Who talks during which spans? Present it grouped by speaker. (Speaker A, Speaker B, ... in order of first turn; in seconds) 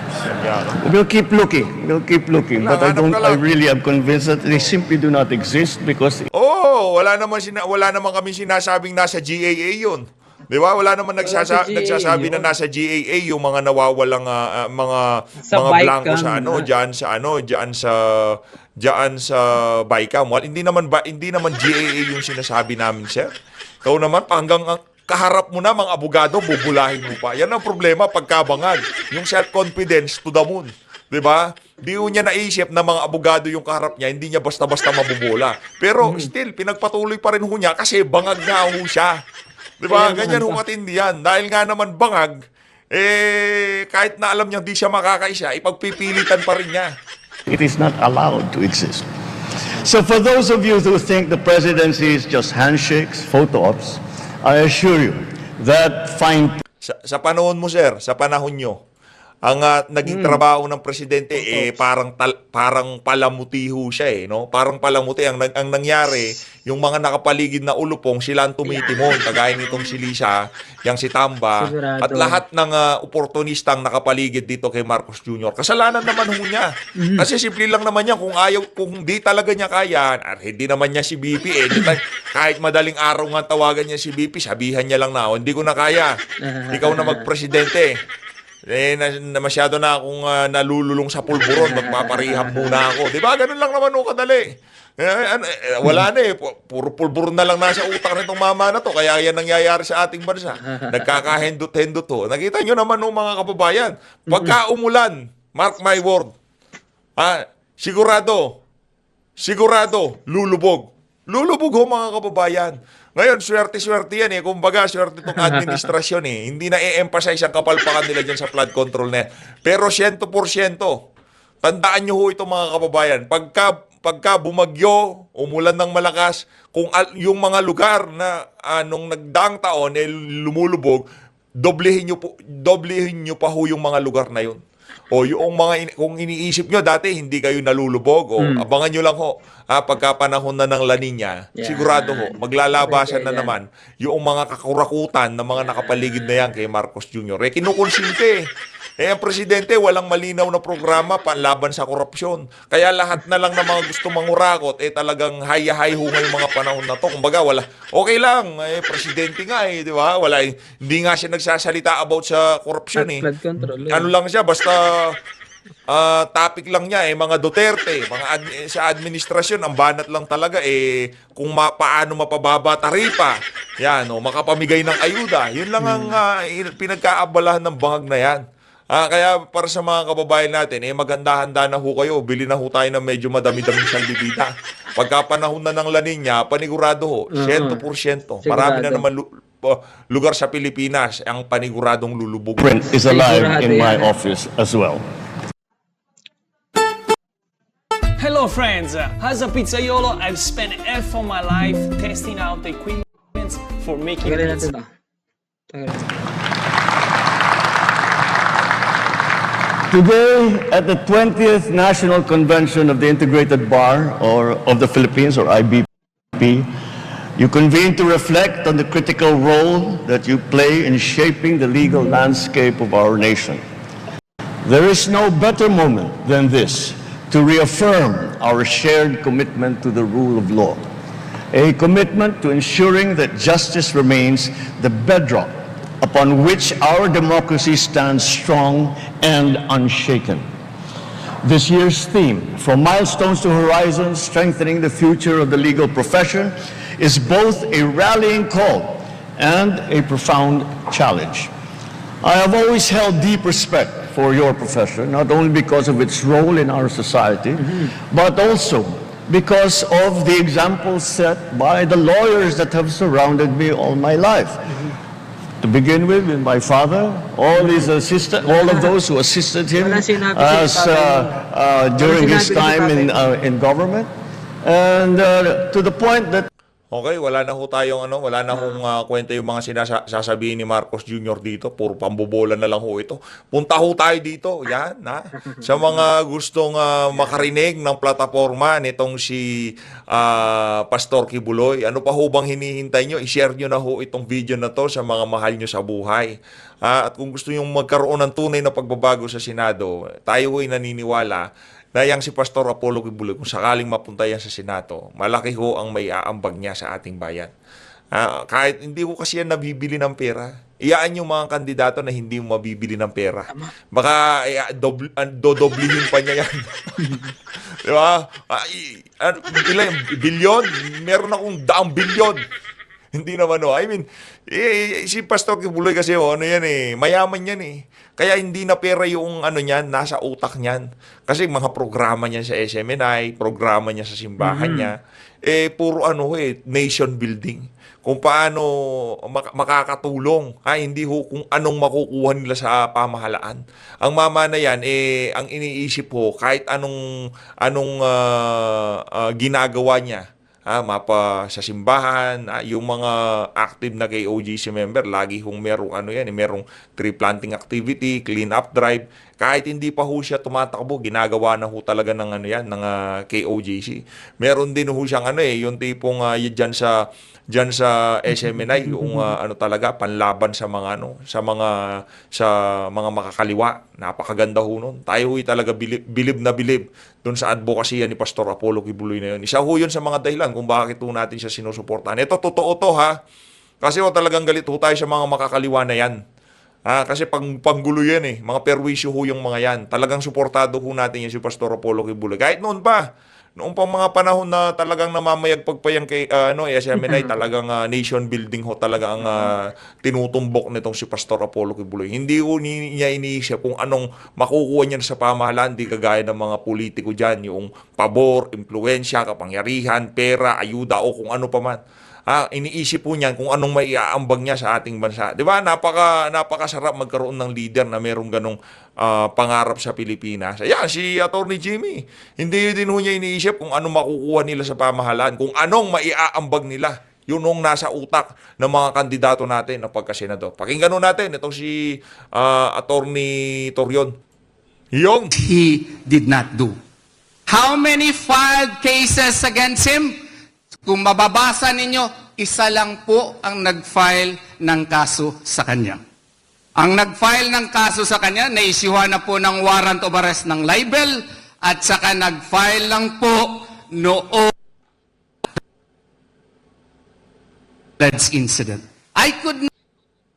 Speaker A: 0.4-0.8, 2.6-3.4, 6.3-23.3, 23.8-39.1, 39.8-42.3, 42.9-46.9, 56.9-58.8, 59.5-70.3, 70.8-86.1, 86.7-87.9, 88.7-94.4, 95.0-106.3, 107.2-108.5, 109.4-120.9, 121.6-131.0, 131.6-134.6, 135.1-148.4, 149.0-165.2, 165.9-170.8, 171.4-178.4, 178.9-192.7, 276.9-289.4, 290.1-296.3, 296.8-301.4, 301.9-307.5, 308.1-316.9, 317.9-322.4, 323.1-338.7, 339.3-346.9, 347.6-366.9, 367.5-371.7, 372.3-383.1, 383.8-386.1, 386.9-393.0, 393.6-431.8, 432.4-434.1, 434.9-435.3
Speaker B: 0.8-6.2, 47.5-49.0, 49.8-56.6, 192.6-195.0, 209.9-216.7, 217.4-223.6, 224.6-230.8, 231.5-240.4, 241.4-251.5, 252.2-264.5, 265.6-274.1, 274.6-276.5
Speaker C: 11.2-12.5, 15.5-16.7, 36.0-36.3, 39.9-40.6, 60.0-60.4, 68.7-69.2, 71.6-72.4, 77.0-77.3, 86.4-87.2, 91.5-92.8, 104.3-104.6, 138.4-138.7, 141.6-143.6, 162.9-164.1, 175.8-176.2, 187.4-187.8, 188.4-189.1, 193.1-194.1, 204.2-204.9, 205.7-206.1, 257.6-257.9, 269.8-271.3, 272.0-273.2, 334.4-334.9, 368.9-369.2
Speaker D: 198.2-204.7
Speaker E: 435.3-436.8, 437.5-440.2, 440.9-446.0, 446.8-454.5, 458.0-459.7